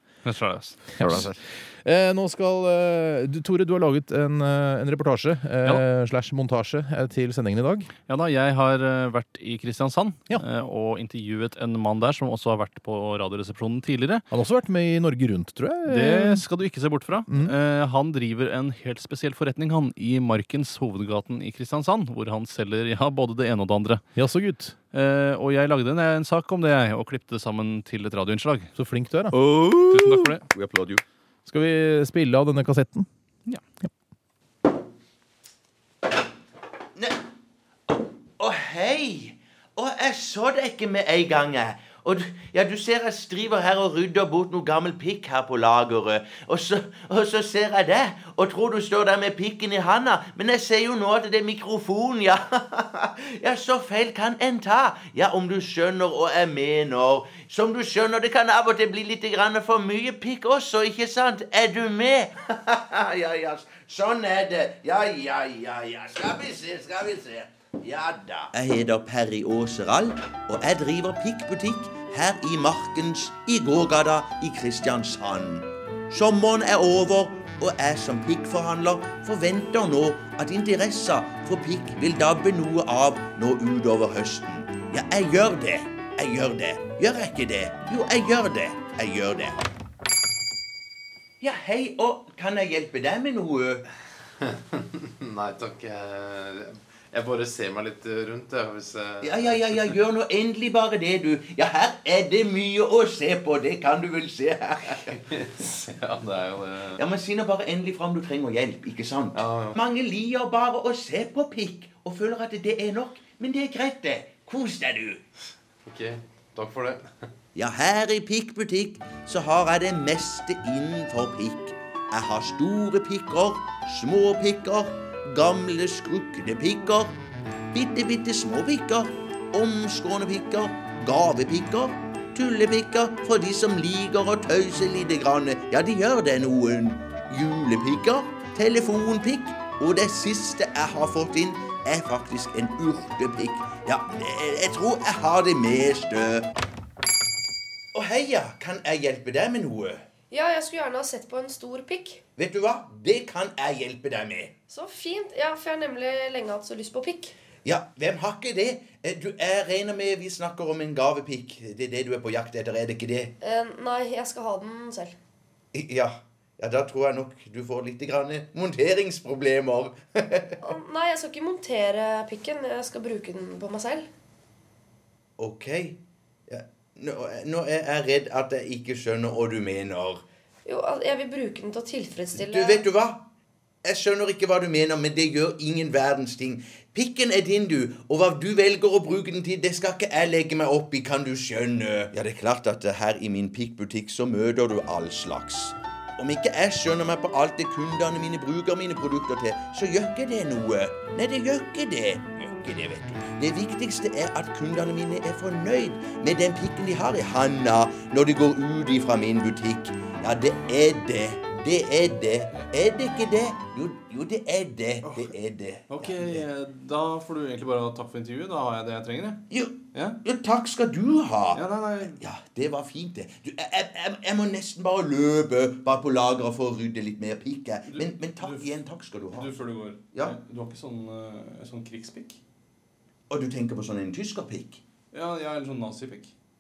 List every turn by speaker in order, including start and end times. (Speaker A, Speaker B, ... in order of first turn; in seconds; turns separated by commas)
Speaker A: 0.2-1.3, Speaker B: 1.0-7.9, Speaker A: 8.1-14.2, Speaker B: 14.3-16.4, Speaker A: 15.9-24.1, Speaker B: 24.2-24.8, Speaker A: 24.9-28.7, Speaker B: 28.8-29.4, Speaker C: 29.4-30.9, Speaker A: 29.9-30.4, Speaker B: 31.5-33.1, Speaker C: 37.0-37.2, Speaker C: 37.9-89.6, Speaker C: 91.4-93.8, Speaker D: 94.4-99.8, Speaker C: 99.2-105.2, Speaker D: 105.1-107.0, Speaker C: 107.0-115.2, Speaker D: 109.3-109.8, Speaker D: 115.9-117.1, Speaker C: 117.5-127.2, Speaker C: 127.7-146.5, Speaker C: 147.9-150.0, Speaker E: 150.3-152.2, Speaker C: 152.4-154.5, Speaker E: 154.7-157.3, Speaker C: 157.7-163.3, Speaker E: 163.4-165.2, Speaker C: 165.7-170.6, Speaker E: 170.6-174.1, Speaker C: 175.4-180.2, Speaker E: 180.7-182.9, Speaker C: 182.3-183.2, Speaker C: 183.8-216.4, Speaker A: 215.0-215.3, Speaker A: 215.9-220.2, Speaker C: 219.5-229.5, Speaker A: 221.5-222.2, Speaker A: 227.9-228.7, Speaker A: 229.4-232.4, Speaker C: 233.3-234.8, Speaker A: 235.1-236.3